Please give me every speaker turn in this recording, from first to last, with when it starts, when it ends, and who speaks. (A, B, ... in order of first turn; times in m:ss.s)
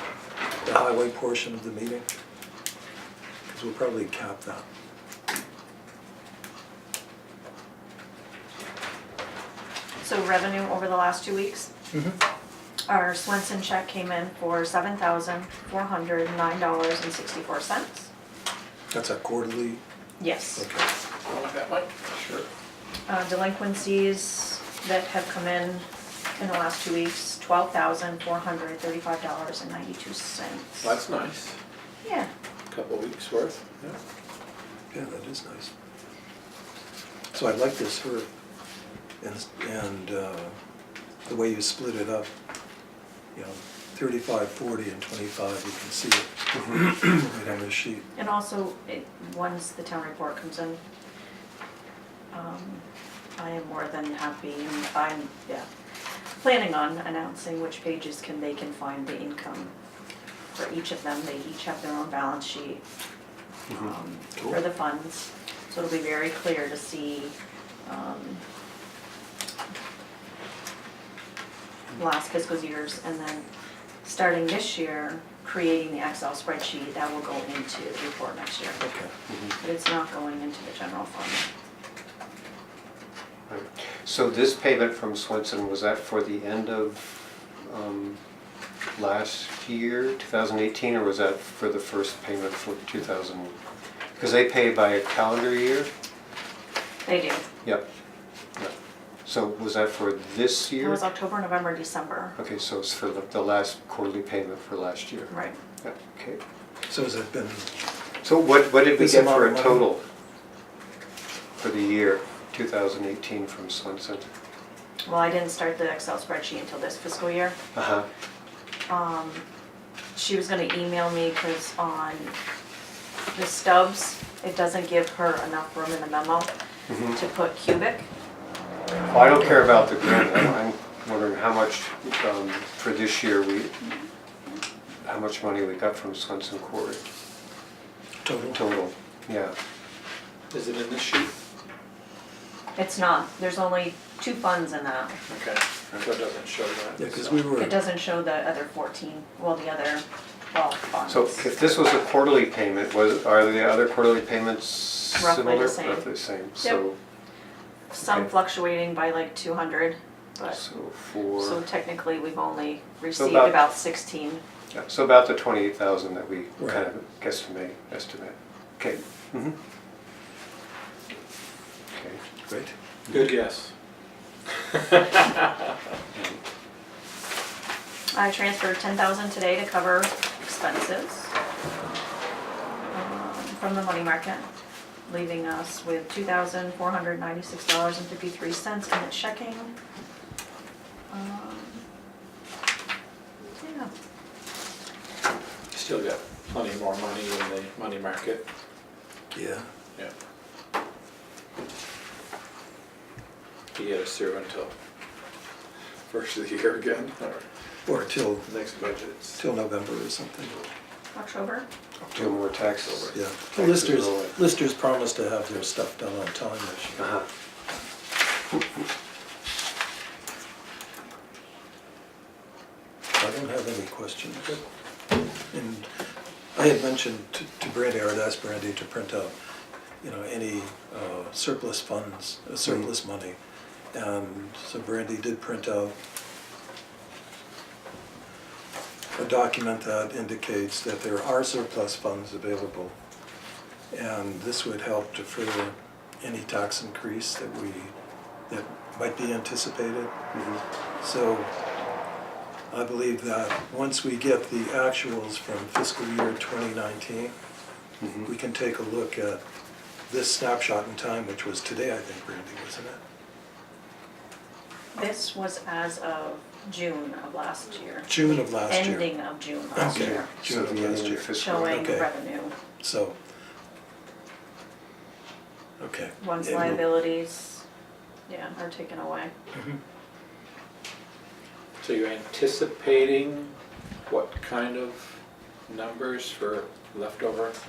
0:00.6-0:02.1 A
0:03.5-0:04.6 A
0:10.0-0:11.7 B
0:11.9-0:12.2 A
0:12.9-0:18.1 B
0:18.9-0:19.8 A
0:20.2-0:20.6 B
0:20.6-0:20.9 A
0:21.3-0:22.5 C
0:23.1-0:25.8 B
0:26.4-0:30.9 B
0:30.8-0:31.6 C
0:32.0-0:32.3 B
0:32.7-0:34.0 C
0:34.9-0:35.7 A
0:37.3-0:38.3 A
0:39.2-0:40.6 A
0:41.3-0:42.3 A
0:43.3-0:48.1 A
0:48.2-0:50.8 B
0:52.3-0:52.8 B
0:53.4-0:55.7 B
0:56.4-0:59.7 B
1:00.6-1:02.8 B
1:03.7-1:08.4 B
1:11.9-1:13.5 B
1:14.0-1:18.8 B
1:18.8-1:19.1 A
1:19.3-1:19.6 D
1:19.6-1:21.5 B
1:23.5-1:28.2 D
1:29.0-1:33.6 D
1:34.2-1:35.9 D
1:37.0-1:37.4 B
1:39.2-1:41.0 D
1:40.8-1:42.4 B
1:42.4-1:46.4 D
1:45.3-1:45.6 B
1:46.9-1:47.7 A
1:48.2-1:50.0 D
1:49.0-1:49.9 A
1:51.6-1:54.3 D
1:55.0-1:57.6 B
1:57.7-1:58.1 D
1:58.9-1:59.4 B
2:00.2-2:02.4 B
2:03.3-2:06.5 B
2:06.9-2:07.2 D
2:07.1-2:08.1 B
2:09.1-2:13.8 D
2:15.0-2:17.0 D
2:18.2-2:18.6 A
2:18.5-2:19.6 D
2:20.5-2:21.4 C
2:22.8-2:25.2 B
2:25.3-2:27.4 C
2:27.0-2:27.8 A
2:27.6-2:31.4 B
2:31.1-2:37.0 D
2:35.2-2:36.8 B
2:37.9-2:40.6 B
2:40.5-2:41.6 D
2:41.4-2:44.4 B
2:43.2-2:43.6 D
2:44.7-2:49.6 D
2:51.9-2:52.2 D
2:52.5-2:52.7 A
2:53.1-2:53.7 C
2:54.9-2:55.3 C
2:56.1-2:56.4 D
2:58.1-3:01.3 B
3:02.9-3:04.5 B
3:05.1-3:09.7 B
3:11.1-3:11.8 B
3:13.6-3:13.9 B
3:15.7-3:18.4 C
3:19.3-3:19.7 A
3:23.8-3:24.7 C
3:26.1-3:27.5 C
3:27.9-3:28.5 A
3:28.5-3:29.4 C
3:29.4-3:30.6 A
3:31.1-3:31.7 B
3:32.1-3:34.4 D
3:32.2-3:33.2 C
3:33.1-3:37.0 A
3:37.0-3:37.3 D
3:43.2-3:44.6 A
3:45.5-3:45.9 A
3:46.6-3:49.3 A
3:50.0-3:53.4 A
3:53.9-3:56.0 A
3:59.2-4:02.9 A
4:03.9-4:07.9 A
4:08.5-4:10.1 A
4:10.3-4:10.6 D
4:11.0-4:11.5 A
4:12.7-4:17.3 A
4:18.0-4:18.3 D
4:18.2-4:19.4 A
4:20.1-4:23.0 A
4:24.9-4:30.3 B
4:28.1-4:29.1 A
4:29.7-4:32.1 A
4:29.8-4:31.9 D
4:31.4-4:32.5 B
4:32.8-4:33.2 A
4:35.8-4:36.8 A
4:36.2-4:37.6 B
4:38.3-4:39.3 B
4:41.8-4:43.5 C
4:44.1-4:45.1 C
4:45.7-4:47.6 C